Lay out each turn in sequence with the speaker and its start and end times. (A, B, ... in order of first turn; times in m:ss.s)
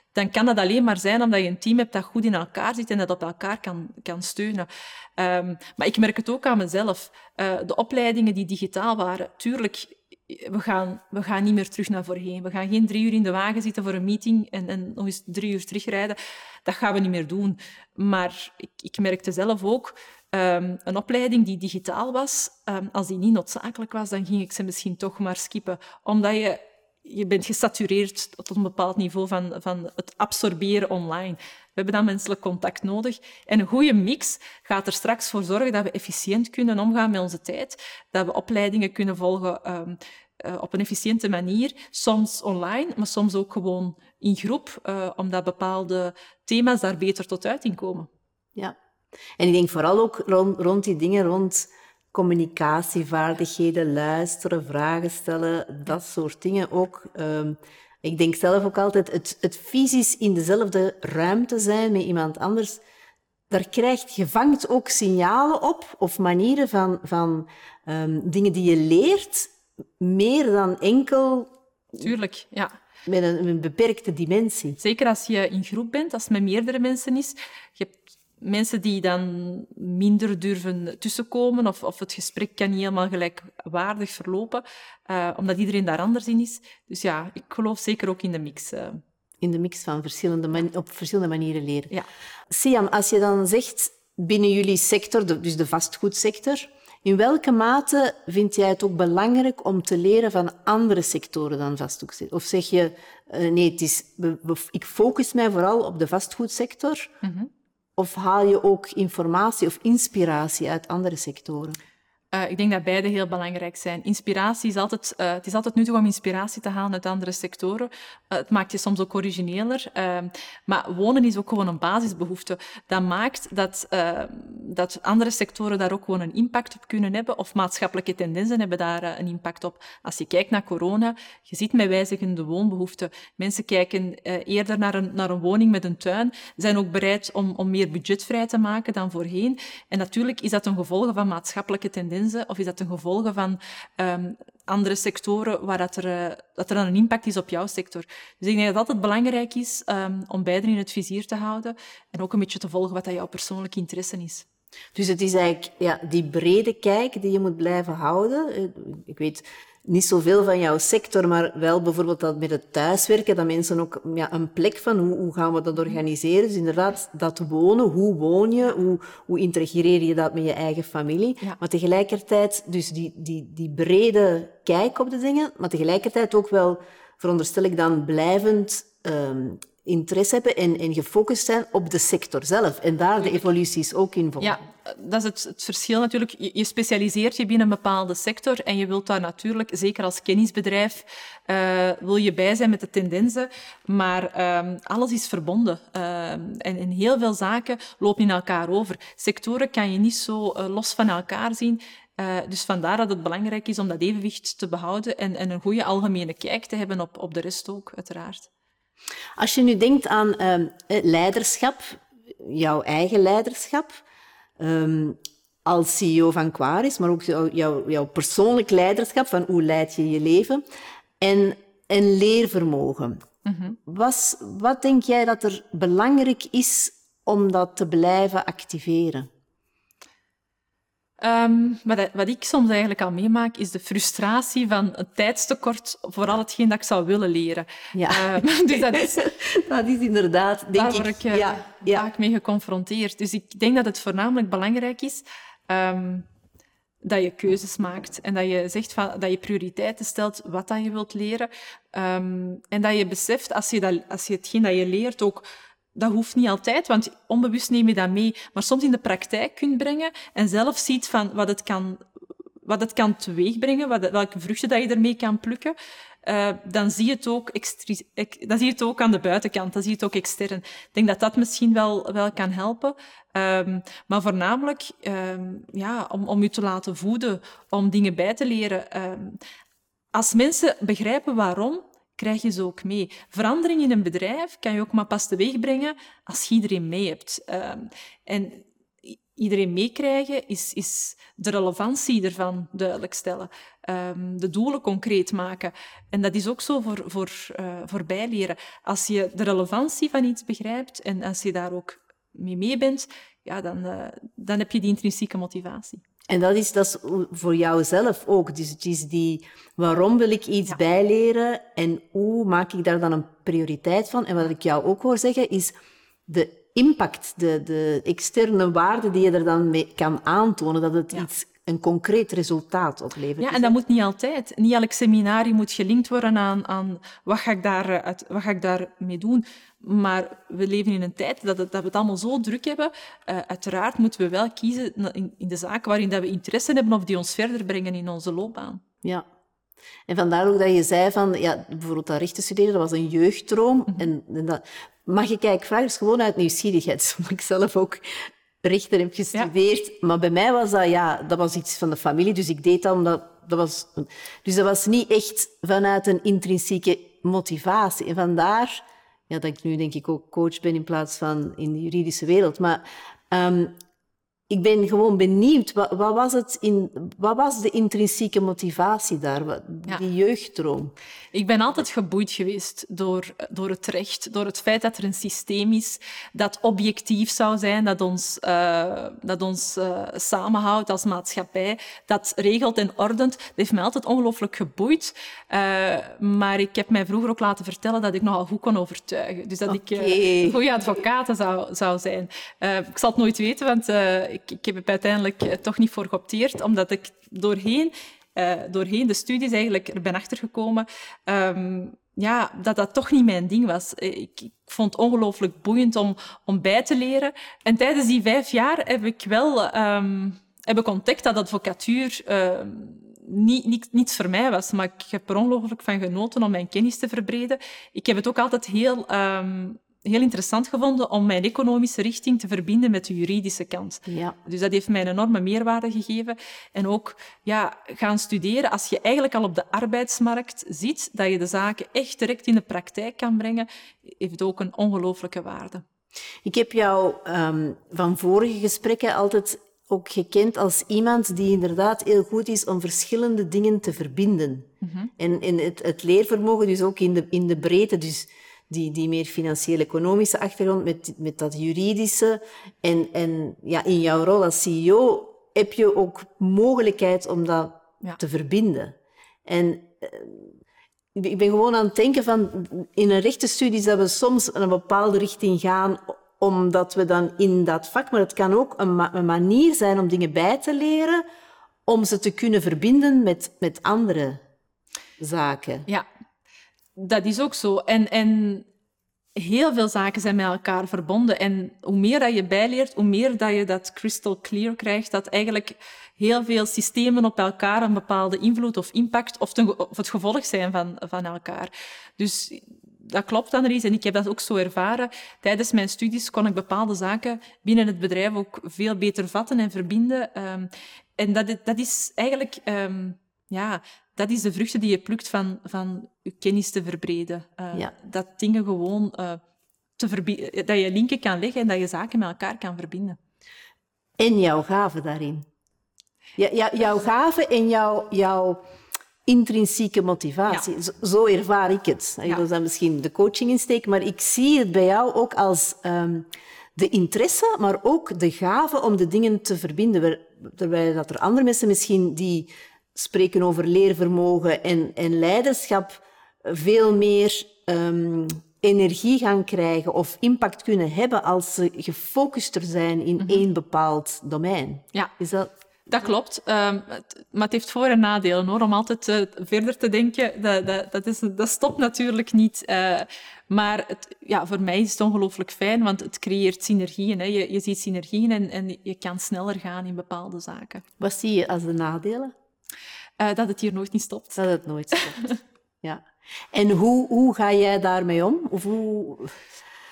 0:00.1-0:48.1 A
0:49.4-1:02.8 B
1:03.5-1:11.5 B
1:12.0-1:12.7 A
1:13.1-1:14.8 B
1:14.8-1:29.0 A
1:29.4-1:31.9 B
1:32.5-1:47.1 B
1:47.2-1:47.5 A
1:48.0-1:51.8 B
1:52.3-2:34.5 A
2:34.9-3:04.6 B
3:04.4-3:28.5 A
3:29.4-3:34.0 B
3:34.6-3:40.6 B
3:41.2-3:43.2 B
3:43.4-3:43.8 A
3:43.8-3:49.3 B
3:51.2-3:59.3 A
3:57.9-4:02.1 B
4:00.8-4:06.3 A
4:07.0-4:15.4 A
4:16.0-4:22.0 A
4:22.6-4:39.4 A
4:40.1-5:06.0 A
5:06.3-5:15.7 B
5:16.3-5:23.8 B
5:23.4-5:38.8 A
5:40.1-5:48.0 B
5:48.6-6:03.8 B
6:04.5-6:10.9 B
6:11.3-7:15.8 A
6:29.7-6:30.6 B
7:04.1-7:04.4 B
7:16.4-7:40.5 B
7:24.8-7:25.1 A
7:41.2-7:51.2 B
7:51.9-7:54.4 B
7:55.2-7:55.9 B
7:57.0-7:58.7 A
7:59.4-8:29.4 A
8:30.0-8:33.2 A
8:34.2-8:35.5 B
8:36.4-8:38.6 B
8:39.3-9:05.5 B
9:03.2-9:03.4 A
9:05.9-9:20.8 A
9:21.0-9:22.3 B
9:23.2-9:24.4 A
9:24.4-9:29.4 B
9:25.0-9:25.4 A